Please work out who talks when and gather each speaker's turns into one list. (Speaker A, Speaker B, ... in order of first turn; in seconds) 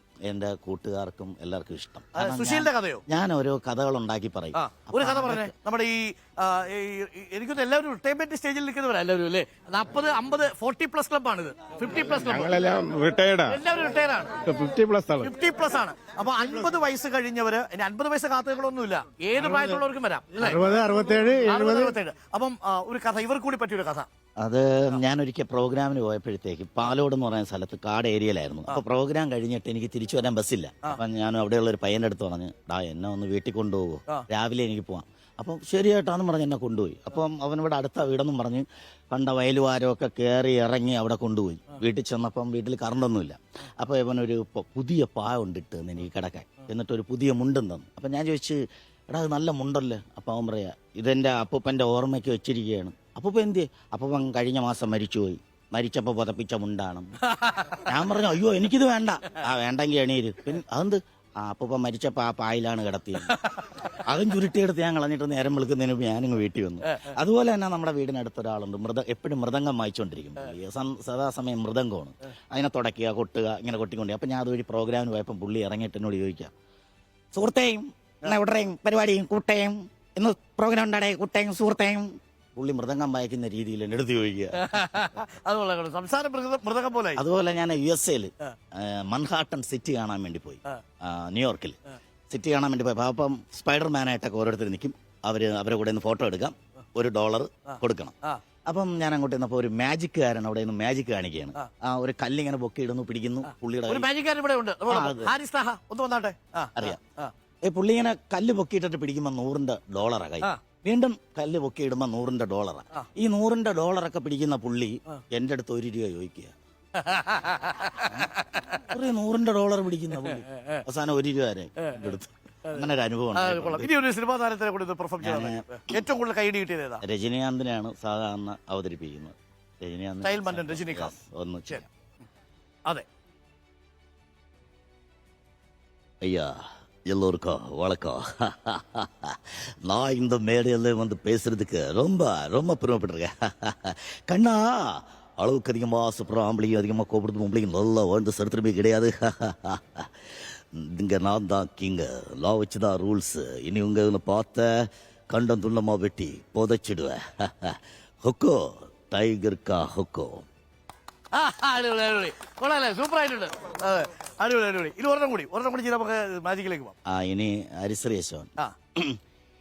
Speaker A: 0.3-5.5, 24.4-76.5, 77.3-85.1, 87.2-91.8, 92.3-98.2, 98.7-104.1, 104.9-105.3, 107.6-116.5, 118.1-123.9, 125.2-125.7, 127.0-131.9, 136.2-160.5, 167.1-169.2
Speaker B: 2.1-3.0, 4.5-12.8, 13.5-14.5, 15.2-24.1, 57.2-57.9, 63.3-63.6, 84.5-87.2, 97.7-98.4, 103.9-107.3, 117.0-118.9, 120.2-120.8, 121.8-122.1, 122.7-127.0, 130.2-131.2, 161.3-166.9
Speaker C: 12.2-13.6, 14.4-15.3, 20.5-21.9